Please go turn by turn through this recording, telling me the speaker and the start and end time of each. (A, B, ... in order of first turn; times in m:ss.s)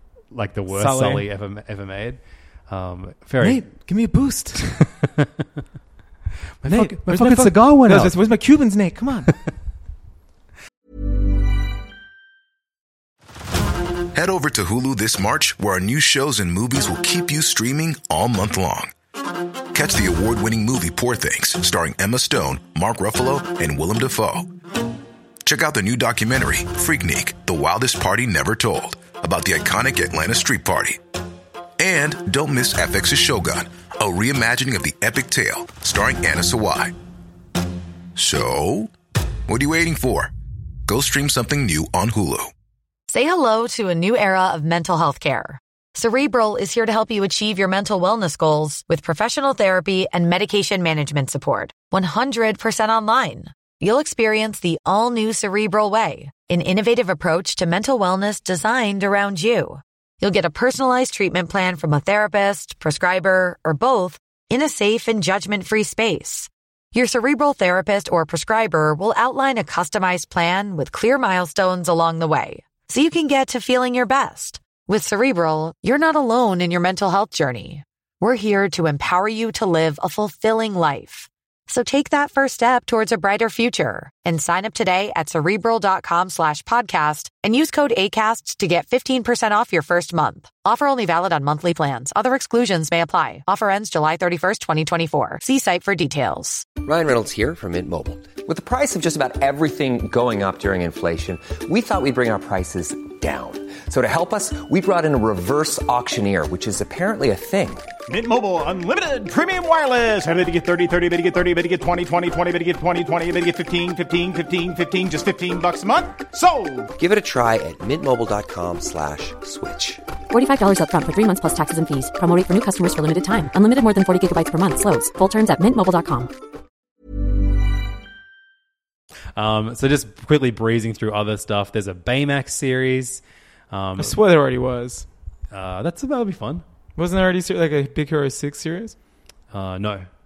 0:00.3-0:03.6 A
0:00.7-0:01.2 B
0:03.4-0:04.6 B
0:04.6-0:05.4 A
0:06.6-0:08.2 A
0:06.7-0:09.3 B
0:14.1-0:18.9 C
0:19.7-0:24.5 C
0:25.4-0:31.0 C
0:31.8-0:36.9 C
0:38.2-0:38.9 C
0:39.5-0:40.3 C
0:40.9-0:42.5 C
0:43.1-1:36.7 D
1:36.8-1:47.9 E
1:48.1-1:56.9 F
1:57.0-2:00.0 E
2:00.3-2:06.3 G
2:09.3-2:14.2 A
2:14.0-2:15.0 B
2:15.5-2:16.6 A
2:17.0-2:19.0 B
2:19.5-2:20.1 A